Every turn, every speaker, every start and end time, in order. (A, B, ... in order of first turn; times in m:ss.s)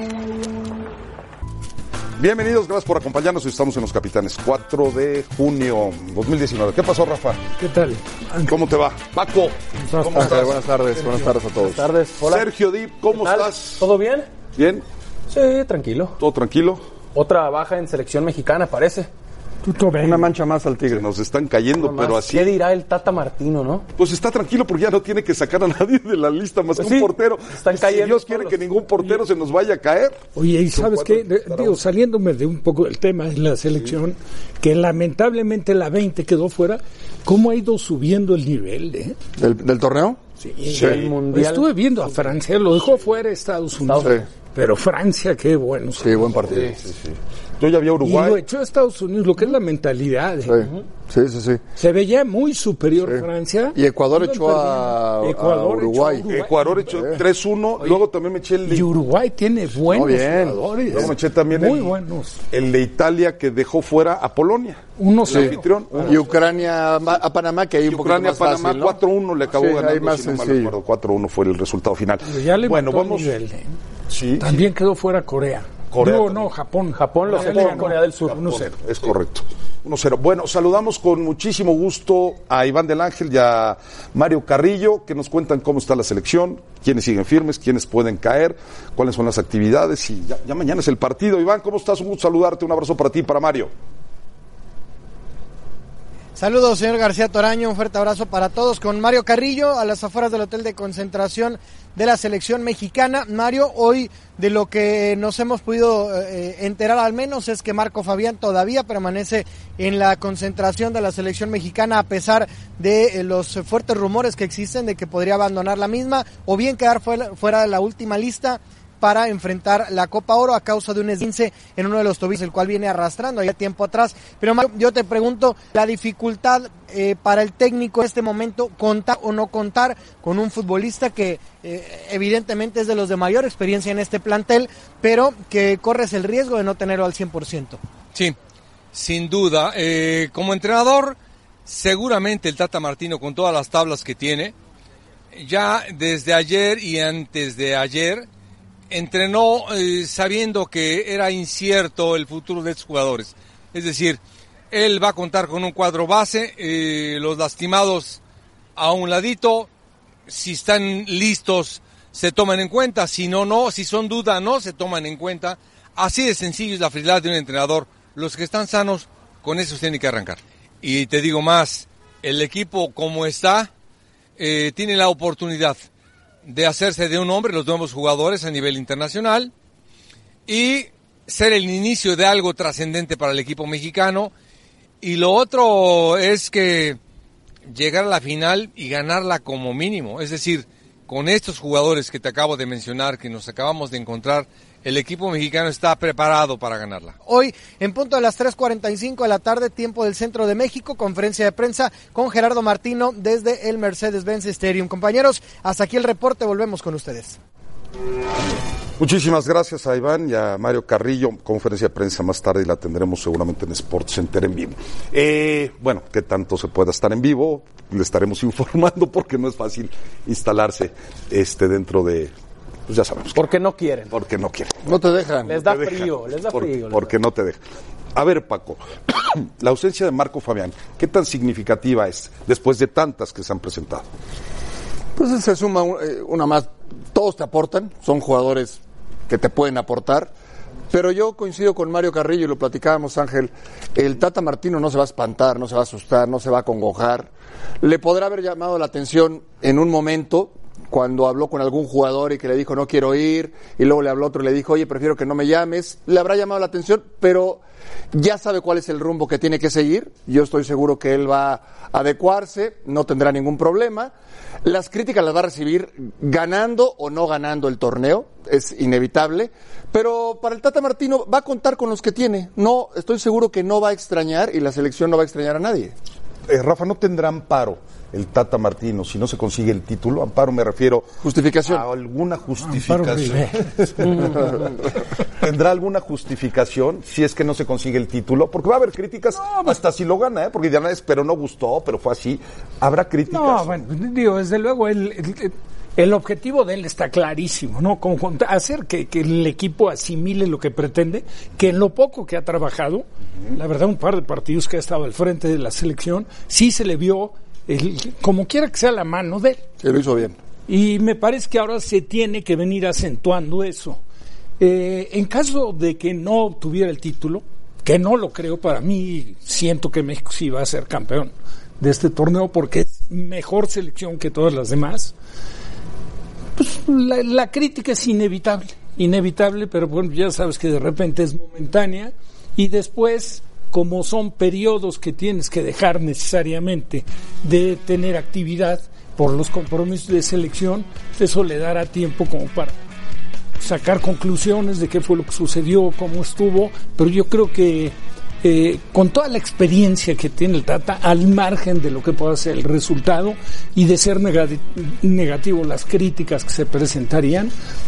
0:02.2-0:07.4 A
0:07.6-0:08.5 B
0:08.5-0:10.6 A
0:09.9-0:10.4 B
0:10.1-0:11.8 C
0:11.6-0:12.5 D
0:12.2-0:13.8 A
0:13.1-0:14.3 D
0:14.6-0:14.8 A
0:15.3-0:16.2 D
0:16.2-0:16.8 A
0:17.1-0:19.1 D
0:19.6-0:20.3 B
0:20.0-0:21.0 C
0:20.9-0:22.6 A
0:21.8-0:23.8 D
0:24.0-0:31.8 A
0:26.8-0:29.1 D
0:30.4-0:39.1 B
0:39.4-0:40.2 C
0:40.4-0:46.2 B
0:40.8-0:41.7 D
0:43.9-0:44.1 D
0:46.0-0:46.7 C
0:46.8-0:48.4 A
0:48.0-0:50.6 B
0:50.5-0:51.6 C
0:51.8-0:57.0 B
0:53.7-0:56.2 C
0:56.3-0:58.9 A
0:58.7-1:02.4 B
0:59.9-1:00.6 C
1:00.9-1:01.9 A
1:02.5-1:06.2 A
1:05.0-1:06.2 B
1:06.1-1:09.0 C
1:07.8-1:13.3 A
1:09.6-1:10.7 C
1:12.2-1:13.7 B
1:14.1-1:14.6 A
1:14.4-1:18.7 B
1:15.9-1:16.5 A
1:17.0-1:18.4 D
1:17.3-1:33.7 A
1:36.4-2:17.8 E
2:18.9-2:24.5 F
2:25.3-2:28.3 F
2:28.9-2:34.2 F
2:34.7-2:38.2 F
2:38.8-2:39.7 F
2:40.3-2:53.7 F
2:54.4-2:55.8 F
2:56.4-2:59.5 F
3:00.5-3:04.3 F
3:05.0-3:07.0 F
3:07.7-3:17.2 F
3:17.2-3:27.4 E
3:29.0-3:42.3 A
3:42.9-3:43.4 A
3:43.3-3:44.1 D
3:44.1-3:44.8 A
3:44.9-3:45.5 C
3:45.5-3:47.1 D
3:45.6-3:47.6 A
3:48.1-3:54.0 A
3:55.2-4:00.3 C
4:00.9-4:07.3 C
4:07.8-4:17.6 C
4:18.1-4:24.1 C
4:24.6-4:35.9 C
4:36.5-4:41.1 A
4:41.2-4:41.8 C
4:41.6-4:44.5 A
4:42.6-4:44.2 B
4:45.4-4:53.7 A
4:49.3-4:49.8 B
4:53.3-5:09.6 B
5:09.8-5:10.4 C
5:10.7-5:14.0 B
5:14.6-5:25.1 B
5:26.6-5:42.8 B
5:43.6-5:57.5 B